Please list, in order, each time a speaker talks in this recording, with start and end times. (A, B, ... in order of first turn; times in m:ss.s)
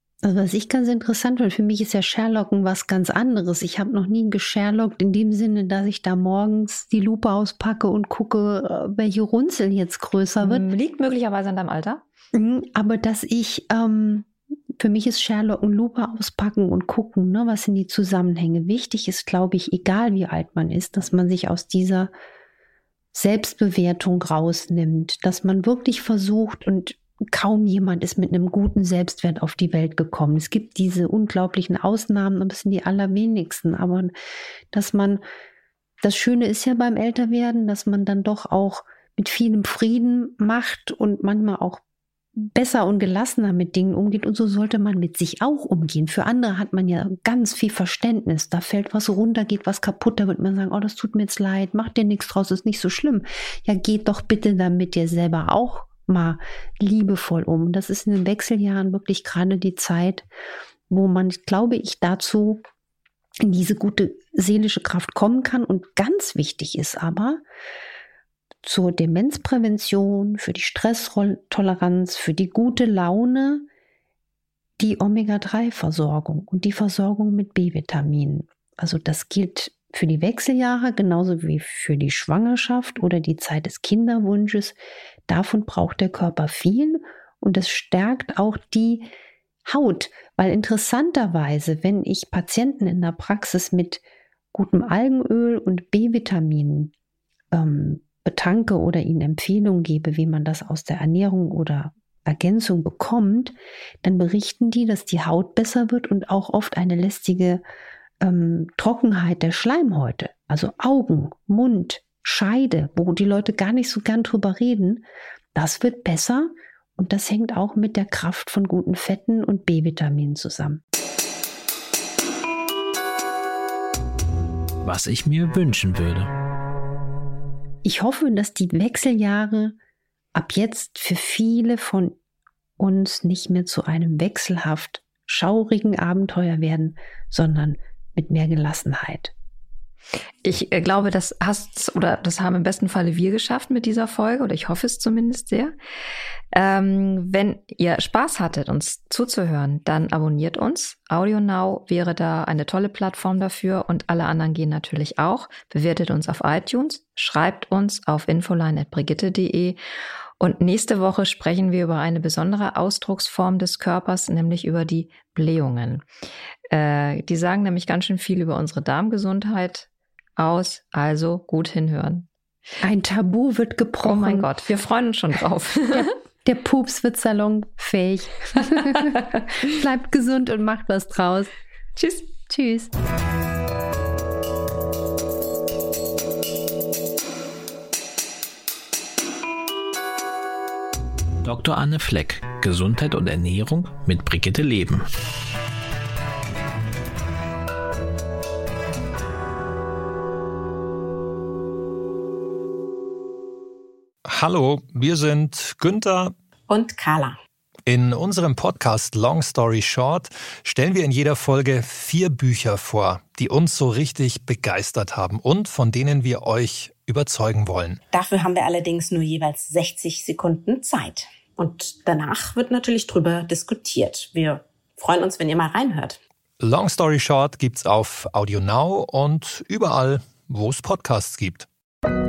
0:00.2-0:10.7 A
0:10.4-0:12.0 B
0:12.3-0:14.3 A
0:14.8-0:22.1 A
0:23.1-0:34.1 A
0:34.7-0:35.2 A
0:36.0-0:41.8 A
0:42.4-1:00.3 A
1:00.9-1:02.6 A
1:03.4-1:07.4 A
1:08.6-1:13.6 A
1:14.8-1:24.8 A
1:25.3-1:29.1 A
1:29.6-1:34.0 A
1:34.5-1:36.9 A
1:37.5-1:47.6 A
1:48.2-1:55.0 A
1:55.6-2:00.8 A
2:04.8-2:06.3 C
2:07.8-2:09.7 A
2:10.4-2:12.1 A
2:12.8-2:19.3 A
2:20.4-2:25.7 B
2:26.5-2:39.8 B
2:40.4-2:46.0 B
2:46.7-2:52.3 B
2:52.8-2:54.5 A
2:54.0-2:56.1 B
2:55.9-3:01.5 A
3:02.0-3:02.3 B
3:02.5-3:02.9 A
3:11.4-3:15.0 C
3:24.3-3:26.3 D
3:26.7-3:27.4 E
3:27.9-3:38.0 D
3:38.1-3:46.2 E
3:46.6-3:51.7 D